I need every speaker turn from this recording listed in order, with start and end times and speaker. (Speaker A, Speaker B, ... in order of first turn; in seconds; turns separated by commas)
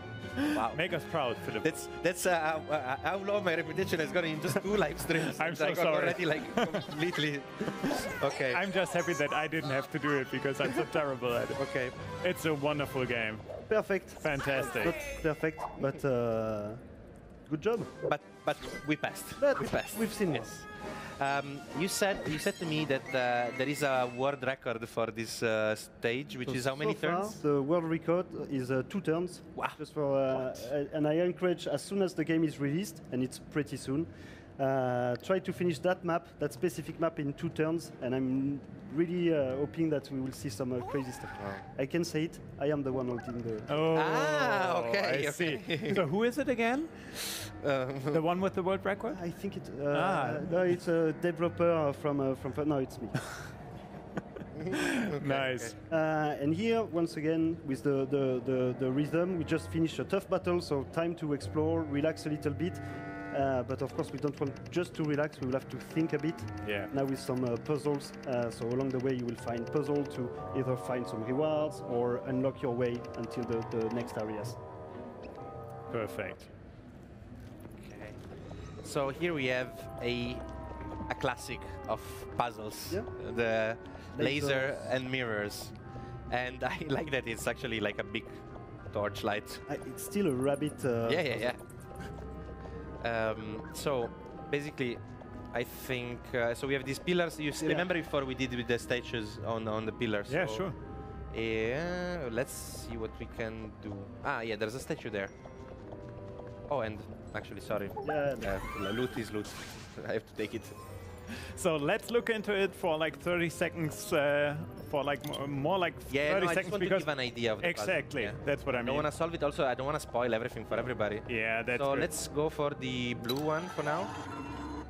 Speaker A: 0.4-1.8, Speaker B: 0.5-0.8, Speaker B: 1.6-8.6, Speaker A: 5.3-6.9, Speaker A: 8.5-13.5, Speaker B: 11.6-11.9, Speaker C: 13.7-16.8, Speaker A: 14.2-14.9, Speaker C: 17.4-17.9, Speaker B: 18.0-27.4, Speaker C: 19.4-20.5, Speaker C: 26.4-43.7, Speaker B: 41.4-41.6, Speaker A: 43.7-47.2, Speaker B: 43.9-46.0, Speaker B: 47.6-48.2, Speaker A: 48.1-49.2, Speaker C: 49.1-53.5, Speaker A: 49.9-50.6, Speaker B: 54.5-55.7, Speaker A: 54.7-55.7, Speaker C: 55.9-74.6, Speaker A: 66.6-66.9, Speaker A: 75.9-76.5, Speaker B: 77.8-78.2, Speaker B: 78.8-80.4, Speaker B: 81.1-85.7, Speaker C: 84.1-84.9, Speaker B: 86.3-89.6, Speaker C: 89.7-91.6, Speaker B: 91.1-91.6, Speaker B: 93.0-95.0, Speaker B: 95.5-100.7, Speaker A: 100.3-100.7, Speaker B: 101.3-105.3, Speaker B: 106.7-110.7, Speaker C: 108.0-108.5, Speaker A: 111.4-119.1, Speaker B: 116.1-124.1, Speaker A: 121.3-122.1